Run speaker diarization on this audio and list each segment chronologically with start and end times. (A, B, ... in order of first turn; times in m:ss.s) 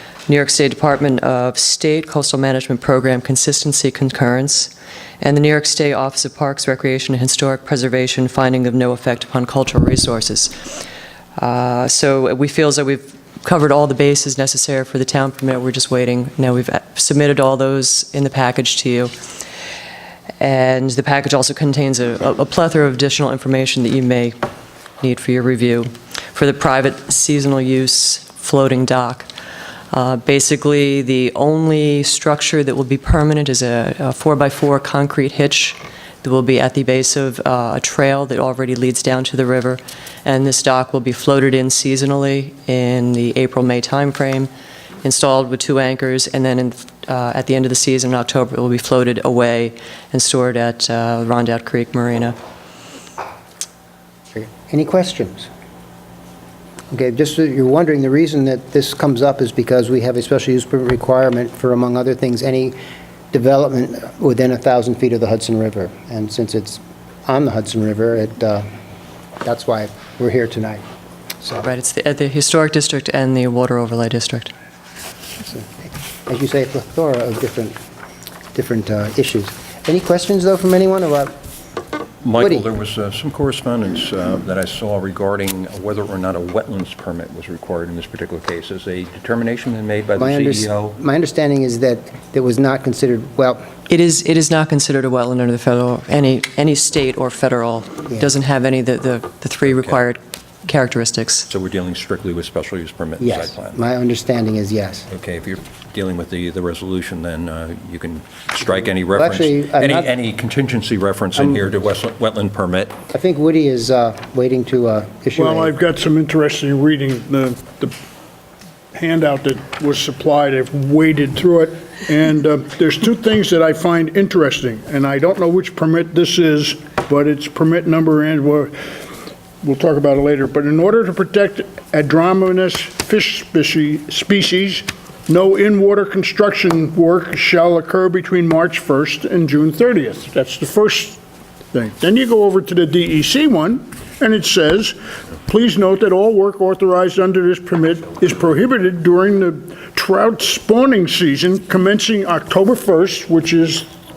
0:00.3-0:10.7 A
0:11.4-0:19.1 A
0:20.4-0:24.4 A
0:25.0-0:29.3 A
0:29.9-0:44.5 A
0:45.0-0:52.4 A
0:54.3-0:55.5 B
0:56.9-1:02.8 B
1:03.3-1:08.6 B
1:09.4-1:10.8 B
1:11.6-1:14.5 A
1:15.4-1:17.8 B
1:18.6-1:21.3 B
1:22.2-1:31.0 C
1:22.3-1:22.7 B
1:30.2-1:33.6 B
1:33.9-1:41.5 A
1:39.6-1:40.0 C
1:41.5-1:43.8 C
1:43.2-1:45.1 B
1:45.1-1:52.9 C
1:48.8-1:50.1 B
1:51.4-1:51.6 B
1:53.1-1:55.8 B
1:55.4-1:57.9 D
1:58.9-2:08.9 D
2:09.6-2:21.2 D
2:21.7-2:33.9 D